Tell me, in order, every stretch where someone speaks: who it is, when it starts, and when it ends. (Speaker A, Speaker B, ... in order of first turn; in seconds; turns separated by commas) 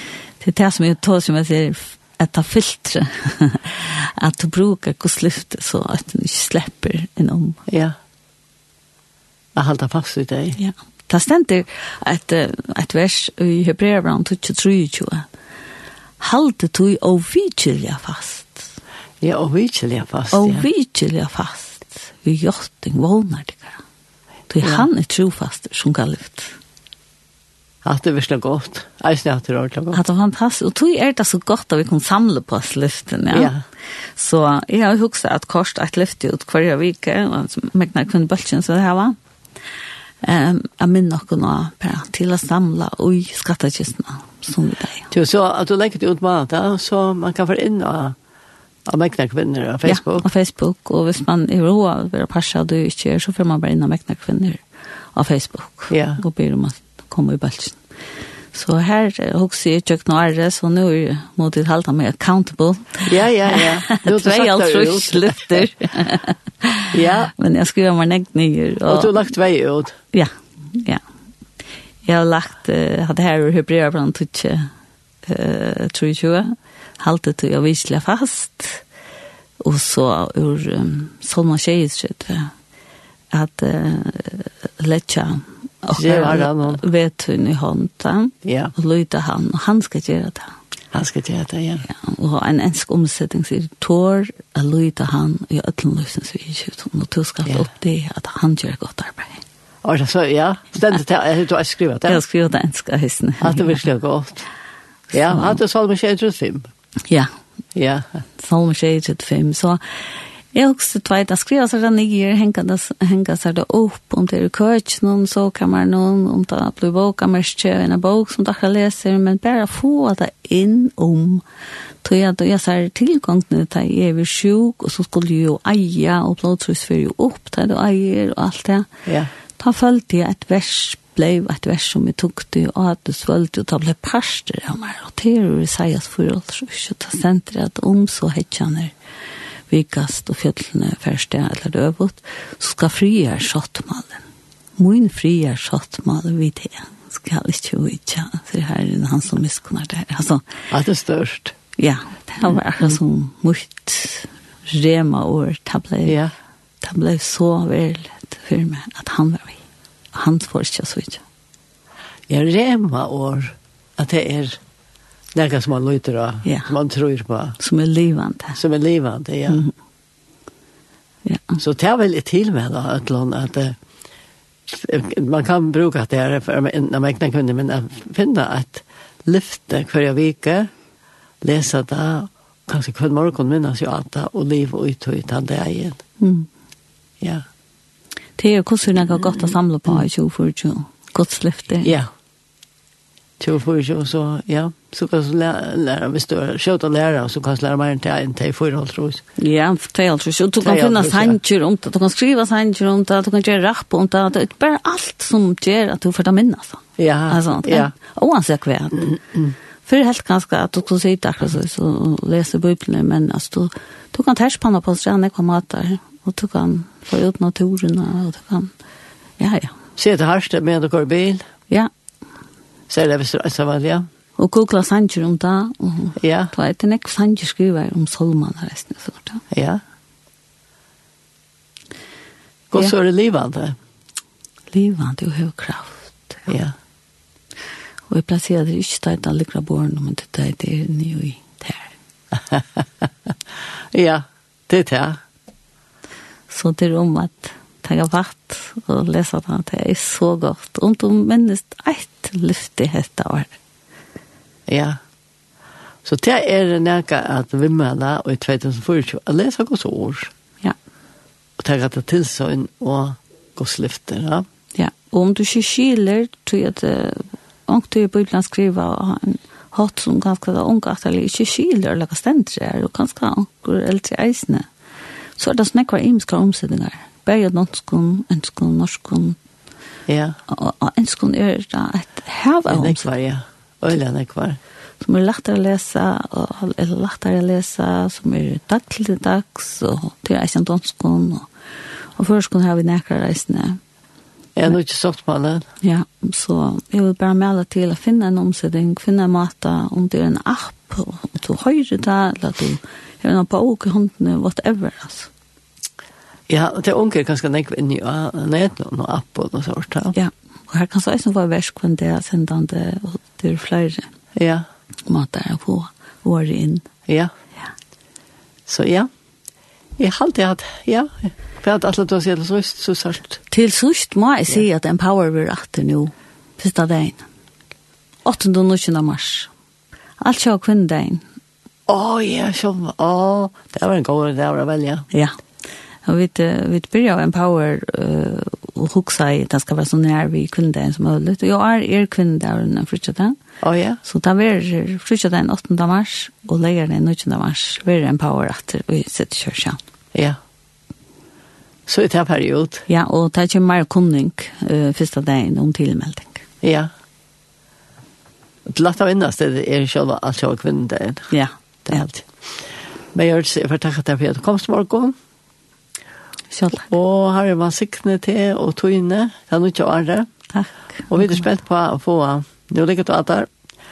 Speaker A: 0.4-7.6, Speaker B: 7.7-8.0, Speaker B: 9.6-10.6, Speaker A: 10.6-15.3, Speaker A: 16.2-18.7, Speaker B: 19.2-20.7, Speaker A: 20.3-23.8, Speaker A: 24.5-26.6, Speaker B: 27.8-30.0, Speaker A: 29.9-33.5, Speaker B: 33.3-33.6, Speaker A: 34.1-39.2, Speaker A: 40.2-45.1, Speaker B: 45.1-48.2, Speaker B: 48.9-50.3, Speaker A: 49.9-54.6, Speaker A: 55.1-57.8, Speaker B: 55.9-56.2, Speaker A: 58.5-69.2, Speaker B: 63.1-65.7, Speaker B: 66.9-67.3, Speaker B: 68.9-70.0, Speaker A: 70.1-71.0, Speaker A: 72.0-74.7, Speaker A: 75.2-78.8, Speaker A: 79.6-82.5, Speaker A: 83.3-90.5, Speaker B: 85.9-86.8, Speaker B: 88.5-88.7, Speaker B: 90.9-91.8, Speaker A: 91.9-99.4, Speaker B: 99.8-102.2, Speaker A: 102.0-103.8, Speaker B: 103.4-104.5, Speaker B: 105.1-106.7, Speaker B: 107.8-108.2, Speaker A: 108.4-109.8, Speaker A: 110.5-121.5, Speaker A: 122.0-128.9, Speaker B: 129.1-129.3, Speaker A: 129.6-138.9, Speaker A: 139.7-144.2, Speaker A: 144.8-150.4, Speaker B: 150.7-151.6, Speaker A: 151.8-156.2, Speaker B: 156.1-156.3, Speaker A: 156.8-159.6, Speaker A: 160.1-161.2, Speaker B: 162.3-164.6, Speaker B: 165.3-167.6, Speaker A: 166.4-166.7, Speaker A: 167.6-168.6, Speaker B: 168.6-169.7, Speaker A: 171.2-171.6, Speaker B: 171.6-173.8, Speaker B: 174.7-180.7, Speaker B: 181.4-186.0, Speaker A: 186.2-186.5, Speaker A: 188.4-191.9, Speaker B: 191.8-192.1, Speaker B: 193.4-199.2, Speaker A: 199.4-209.1, Speaker B: 200.6-201.4, Speaker B: 207.0-207.9, Speaker B: 209.1-209.5, Speaker A: 209.9-218.7, Speaker A: 219.4-219.8, Speaker B: 220.0-221.4, Speaker B: 222.9-224.1, Speaker A: 224.4-229.4, Speaker B: 226.2-226.5, Speaker B: 229.5-229.8, Speaker B: 232.7-233.8, Speaker A: 234.7-236.5, Speaker B: 236.5-236.7, Speaker A: 238.1-241.9, Speaker B: 242.5-242.8, Speaker B: 243.9-245.2, Speaker A: 246.5-253.5, Speaker B: 254.7-255.0, Speaker B: 256.1-260.3, Speaker B: 261.6-264.4, Speaker A: 264.8-274.7, Speaker A: 275.4-279.4, Speaker B: 280.1-280.4, Speaker A: 280.5-283.1, Speaker B: 282.7-284.6, Speaker A: 285.0-291.5, Speaker A: 292.2-293.8, Speaker B: 294.6-295.7, Speaker A: 295.8-305.3, Speaker B: 306.5-310.2, Speaker A: 310.1-314.1, Speaker B: 314.4-314.6, Speaker A: 315.1-316.9, Speaker B: 318.7-319.1, Speaker B: 320.0-323.4, Speaker A: 323.5-327.2, Speaker A: 328.2-329.5, Speaker A: 330.2-331.2, Speaker B: 331.9-335.1, Speaker A: 336.1-343.4, Speaker B: 343.6-344.0, Speaker A: 344.0-349.8, Speaker B: 351.9-352.9, Speaker A: 352.9-356.4, Speaker B: 356.6-356.9, Speaker B: 358.7-361.3, Speaker A: 361.3-362.1, Speaker B: 361.9-362.3, Speaker B: 363.1-365.1, Speaker A: 366.5-366.9, Speaker B: 366.9-370.3, Speaker A: 370.5-371.4, Speaker B: 371.1-373.5